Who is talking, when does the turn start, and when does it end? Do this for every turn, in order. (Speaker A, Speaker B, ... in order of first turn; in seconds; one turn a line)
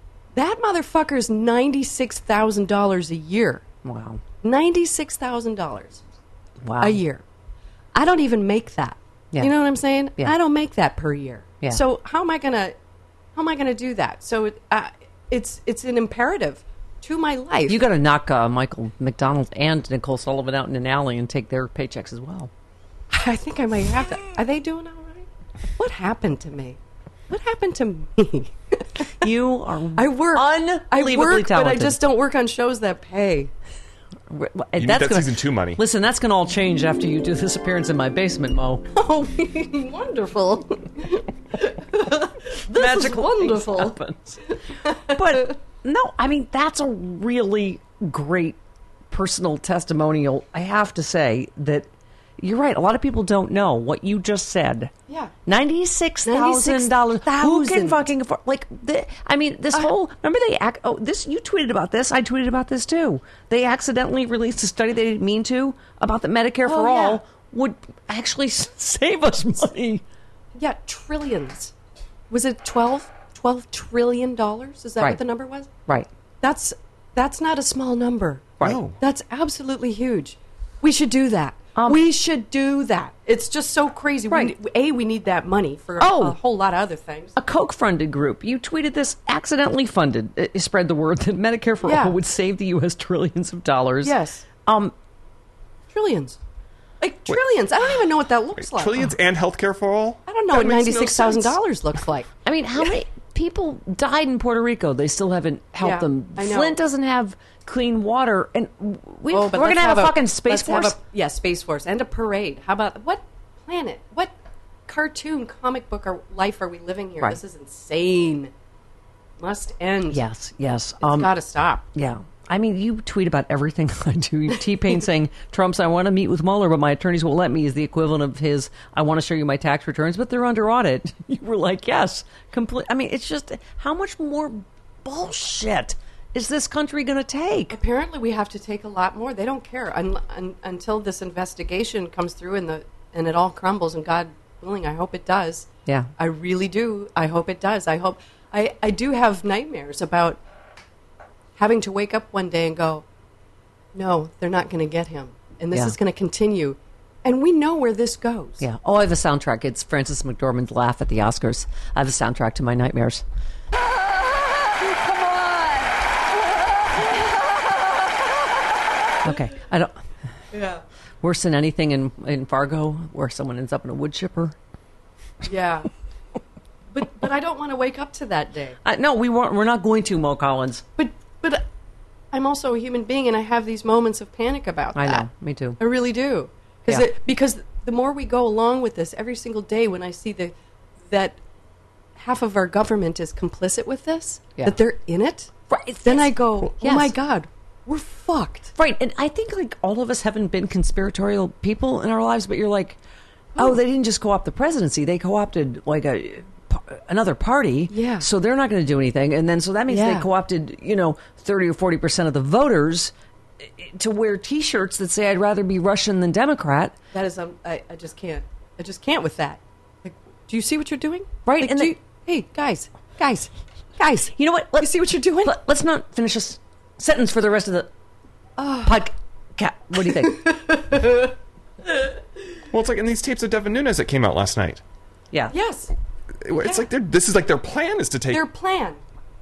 Speaker A: 0.3-3.6
Speaker B: 3.8-4.2
Speaker A: 4.4-6.0
Speaker B: 6.6-7.0
Speaker A: 6.8-7.2
Speaker A: 7.9-12.7
Speaker A: 13.3-17.8
Speaker B: 17.7-22.5
Speaker A: 23.1-29.3
Speaker B: 29.2-32.0
Speaker A: 29.9-33.5
Speaker B: 34.3-38.8
Speaker C: 34.8-35.8
Speaker A: 38.9-44.0
Speaker B: 42.7-44.4
Speaker A: 44.5-45.5
Speaker B: 45.1-48.6
Speaker B: 49.1-51.9
Speaker B: 52.4-54.9
Speaker A: 55.1-55.3
Speaker B: 55.5-70.0
Speaker A: 56.2-58.1
Speaker A: 66.6-67.2
Speaker A: 70.5-71.7
Speaker A: 72.3-75.7
Speaker A: 76.4-87.3
Speaker C: 78.6-79.0
Speaker B: 86.0-86.4
Speaker B: 87.3-94.9
Speaker A: 91.8-92.2
Speaker A: 94.0-94.4
Speaker A: 95.9-96.4
Speaker A: 97.0-99.1
Speaker C: 98.6-101.5
Speaker A: 100.2-102.3
Speaker B: 102.4-111.0
Speaker A: 105.8-106.8
Speaker A: 109.3-114.3
Speaker A: 114.9-118.5
Speaker A: 119.4-120.2
Speaker B: 120.1-121.3
Speaker A: 121.0-121.8
Speaker B: 121.9-137.8
Speaker A: 137.7-150.4
Speaker A: 151.6-153.0
Speaker A: 153.9-158.6
Speaker B: 158.6-163.2
Speaker B: 169.2-169.9
Speaker A: 170.5-170.8
Speaker B: 171.2-174.5
Speaker A: 175.4-175.9
Speaker A: 176.9-178.8
Speaker B: 178.8-180.8
Speaker A: 181.0-181.6
Speaker A: 182.3-185.3
Speaker B: 184.9-185.8
Speaker A: 185.8-191.4
Speaker A: 192.2-195.5
Speaker B: 195.7-197.1
Speaker A: 196.0-198.7
Speaker B: 198.7-203.0
Speaker B: 203.6-216.9
Speaker A: 207.9-208.2
Speaker A: 209.9-210.3
Speaker A: 217.1-224.2
Speaker B: 221.4-221.9
Speaker B: 224.1-227.9
Speaker A: 224.8-225.6
Speaker A: 228.6-229.0
Speaker B: 228.8-230.4
Speaker A: 229.9-231.3
Speaker A: 231.8-232.2
Speaker C: 232.7-234.8
Speaker A: 235.5-235.9
Speaker C: 236.4-238.4
Speaker A: 236.5-236.9
Speaker A: 238.3-239.0